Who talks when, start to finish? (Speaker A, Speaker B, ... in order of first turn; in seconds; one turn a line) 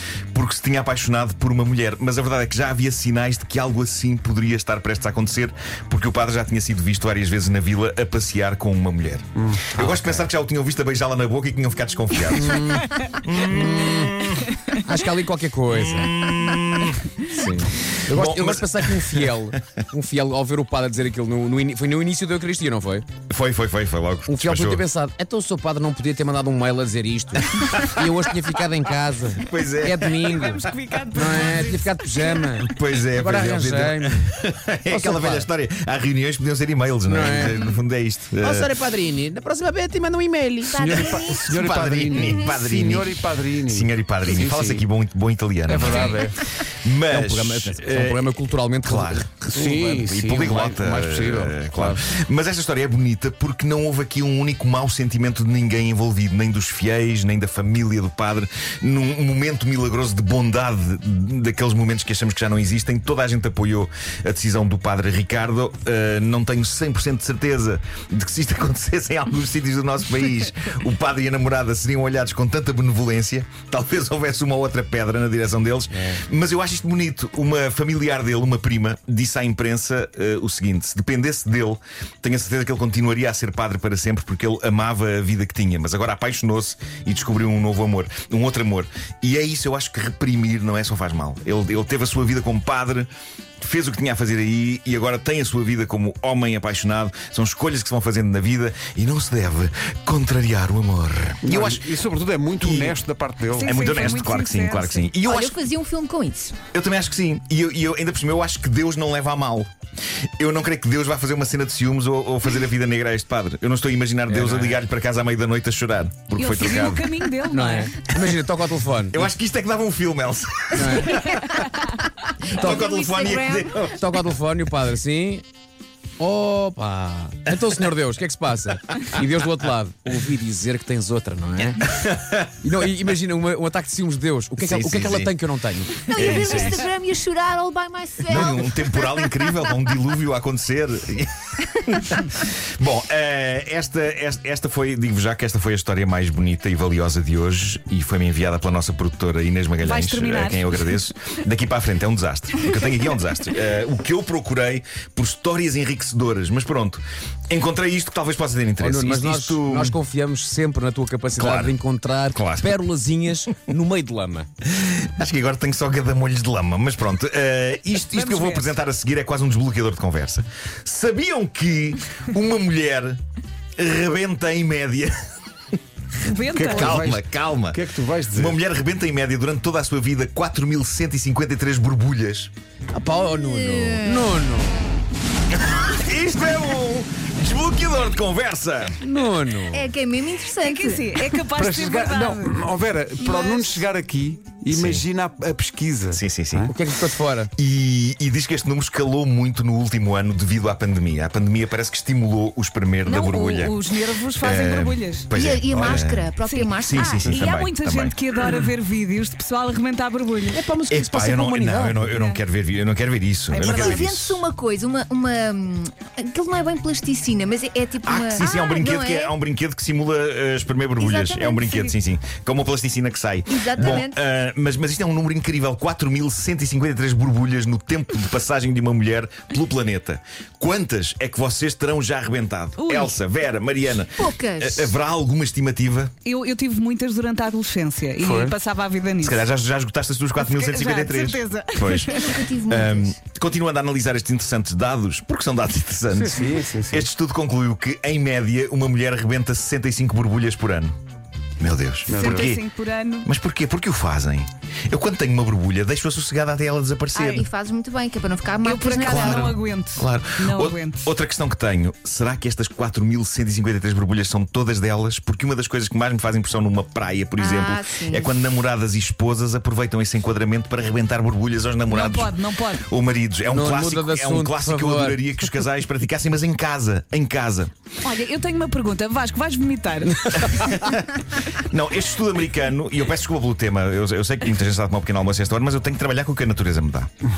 Speaker A: 0.3-14.5
Speaker B: 9.4-9.9
Speaker C: 12.3-14.2
Speaker C: 14.8-16.1
Speaker A: 15.7-17.2
Speaker C: 17.2-23.1
Speaker A: 18.1-19.6
Speaker A: 23.3-24.8
Speaker C: 24.3-30.6
Speaker A: 27.5-28.1
Speaker A: 29.4-30.4
Speaker D: 30.2-32.5
Speaker C: 31.1-34.3
Speaker A: 32.6-38.7
Speaker C: 34.9-35.5
Speaker C: 37.0-37.6
Speaker C: 38.4-41.2
Speaker E: 40.7-41.5
Speaker B: 40.7-44.9
Speaker A: 41.4-48.3
Speaker E: 42.1-42.5
Speaker B: 45.7-46.4
Speaker D: 45.8-46.2
Speaker C: 47.0-50.0
Speaker A: 48.8-93.1
Speaker B: 49.5-52.2
Speaker C: 76.0-76.2
Speaker A: 93.6-101.9
Speaker B: 101.4-103.8
Speaker A: 102.6-103.0
Speaker D: 103.5-105.1
Speaker A: 103.6-105.6
Speaker E: 105.2-106.6
Speaker A: 106.7-109.7
Speaker A: 110.4-117.2
Speaker C: 114.3-114.8
Speaker D: 116.3-118.0
Speaker C: 117.5-119.3
Speaker A: 119.1-121.7
Speaker C: 120.7-121.2
Speaker E: 122.4-123.9
Speaker A: 122.5-124.1
Speaker C: 123.9-125.5
Speaker C: 126.2-131.8
Speaker A: 127.5-127.9
Speaker A: 131.8-132.5
Speaker C: 132.6-136.4
Speaker A: 134.6-135.3
Speaker E: 136.1-139.6
Speaker A: 136.1-136.8
Speaker A: 138.3-160.0
Speaker D: 149.8-150.9
Speaker C: 158.8-164.5
Speaker A: 161.4-161.8
Speaker A: 162.3-162.8
Speaker A: 164.7-173.2
Speaker D: 168.1-168.8
Speaker A: 173.8-175.1
Speaker D: 176.2-177.0
Speaker B: 176.5-178.6
Speaker A: 176.6-182.5
Speaker C: 182.9-184.8
Speaker E: 183.1-184.4
Speaker A: 185.7-189.0
Speaker C: 189.0-189.8
Speaker E: 189.7-191.2
Speaker D: 190.6-192.6
Speaker B: 191.5-196.7
Speaker D: 193.2-193.8
Speaker A: 194.7-195.1
Speaker A: 196.1-196.8
Speaker C: 196.7-197.5
Speaker A: 197.6-203.8
Speaker D: 203.0-205.3
Speaker A: 204.3-208.2
Speaker E: 205.3-207.5
Speaker B: 205.7-206.0
Speaker D: 206.4-210.6
Speaker C: 210.5-212.1
Speaker A: 210.9-214.4
Speaker D: 212.1-212.4
Speaker D: 213.5-214.0
Speaker E: 213.6-219.3
Speaker A: 218.0-236.1
Speaker D: 218.4-218.8
Speaker E: 221.0-221.9
Speaker E: 223.5-224.2
Speaker D: 232.8-233.2
Speaker E: 234.2-234.9
Speaker D: 236.2-239.4
Speaker B: 238.2-238.5
Speaker A: 239.2-250.9
Speaker D: 240.4-242.4
Speaker E: 242.1-243.2
Speaker C: 246.2-246.5
Speaker B: 246.3-247.1
Speaker A: 251.6-252.6
Speaker B: 252.1-252.5
Speaker D: 252.1-253.3
Speaker A: 253.2-257.5
Speaker E: 257.1-259.6
Speaker D: 258.6-261.1
Speaker A: 259.0-277.7
Speaker E: 267.4-268.3
Speaker D: 271.9-272.9
Speaker C: 273.5-275.5
Speaker D: 278.0-280.8
Speaker C: 280.1-280.4
Speaker A: 280.5-287.1